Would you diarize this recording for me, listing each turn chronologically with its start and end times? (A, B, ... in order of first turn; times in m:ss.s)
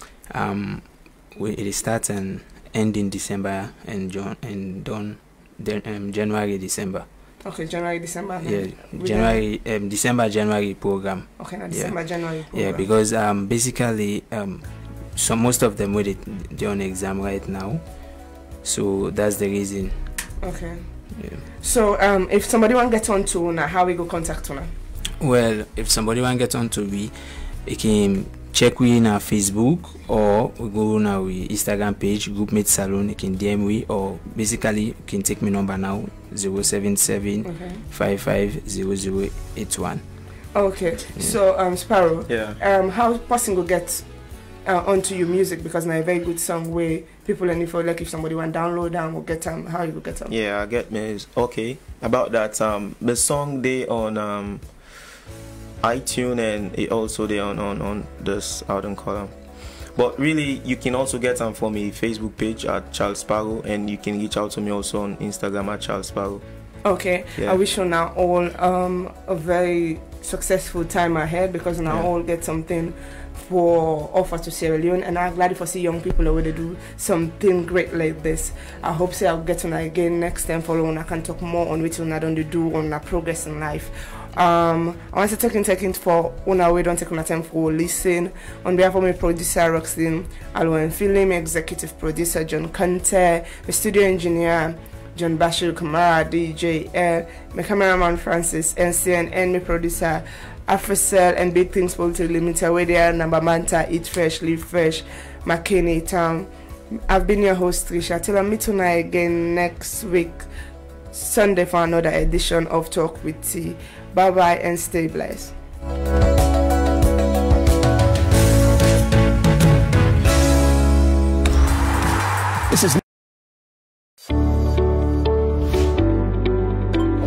0:00.3-0:07.0 A
0:07.4-0:09.4 B
0:08.4-0:17.8 A
0:11.4-0:12.9 B
0:18.6-0:20.0 A
0:20.4-0:20.9 B
0:21.1-0:21.4 A
0:21.6-0:24.7 B
0:25.2-0:40.0 A
0:37.4-0:37.8 B
0:40.5-0:44.1 B
0:42.3-0:42.6 C
0:44.6-0:50.3 B
0:50.3-0:54.6 C
0:55.8-0:59.3 C
0:59.9-1:06.4 C
1:06.8-1:50.4 B
1:51.1-1:55.5 B